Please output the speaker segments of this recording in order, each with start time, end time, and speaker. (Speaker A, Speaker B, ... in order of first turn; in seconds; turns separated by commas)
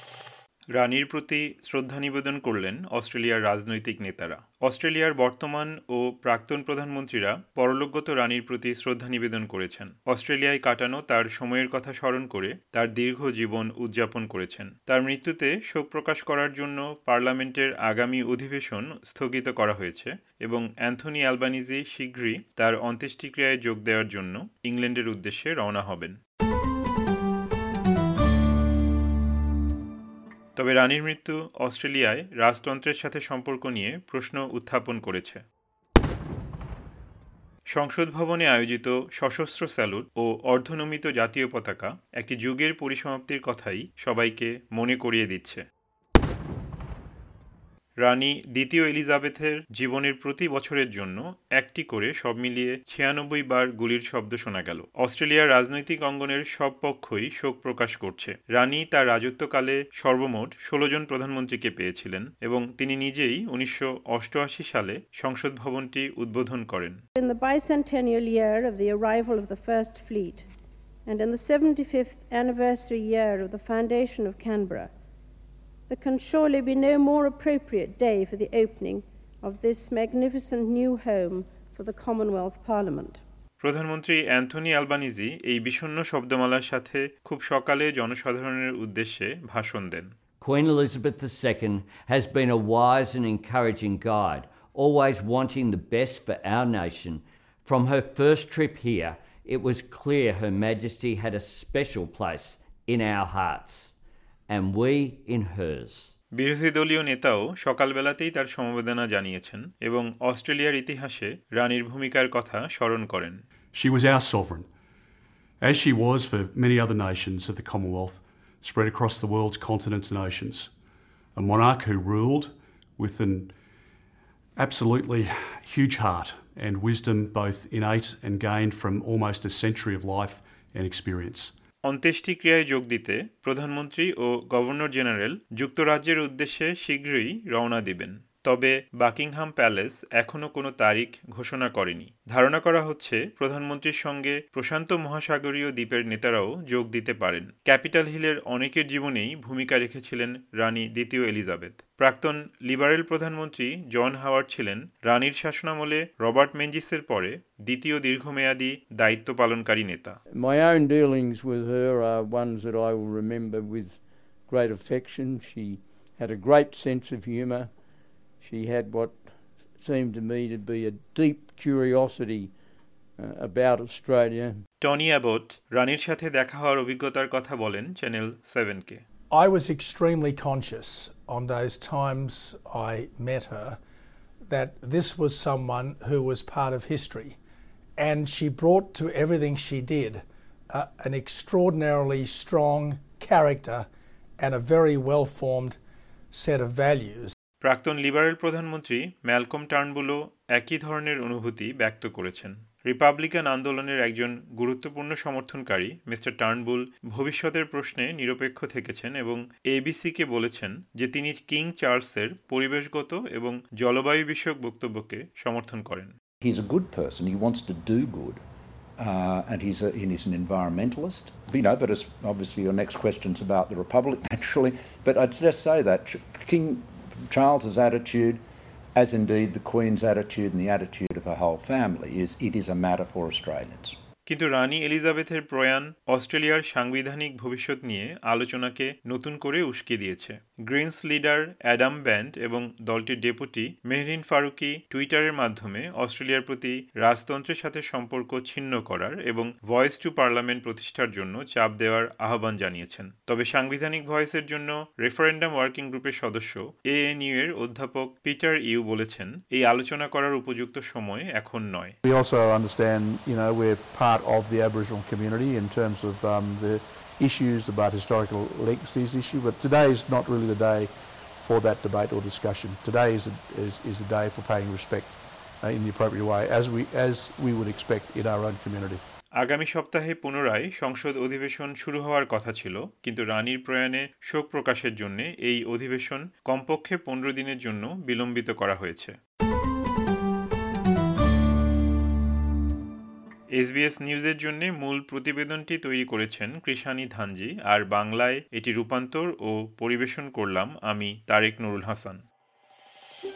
Speaker A: 0.7-26.2, Speaker A: 30.6-35.4, Speaker A: 37.7-45.6, Speaker A: 48.0-67.0, Speaker B: 68.2-70.4, Speaker B: 71.2-74.5, Speaker B: 76.0-82.9, Speaker A: 83.6-90.1, Speaker C: 90.4-103.9, Speaker C: 104.5-106.1, Speaker A: 106.4-113.4, Speaker D: 113.7-114.7, Speaker D: 115.6-120.7, Speaker D: 121.3-123.5, Speaker D: 124.5-131.5, Speaker A: 131.8-160.2, Speaker E: 160.3-172.6, Speaker E: 173.2-174.6, Speaker A: 174.8-179.0, Speaker F: 179.3-183.8, Speaker F: 184.5-187.4, Speaker F: 188.0-193.8, Speaker F: 194.4-195.8, Speaker F: 196.3-197.3, Speaker A: 197.6-216.1, Speaker G: 216.4-218.4, Speaker G: 219.0-228.4, Speaker G: 228.9-233.9, Speaker A: 234.2-261.9, Speaker H: 262.0-279.0, Speaker A: 279.4-289.1, Speaker A: 293.6-302.2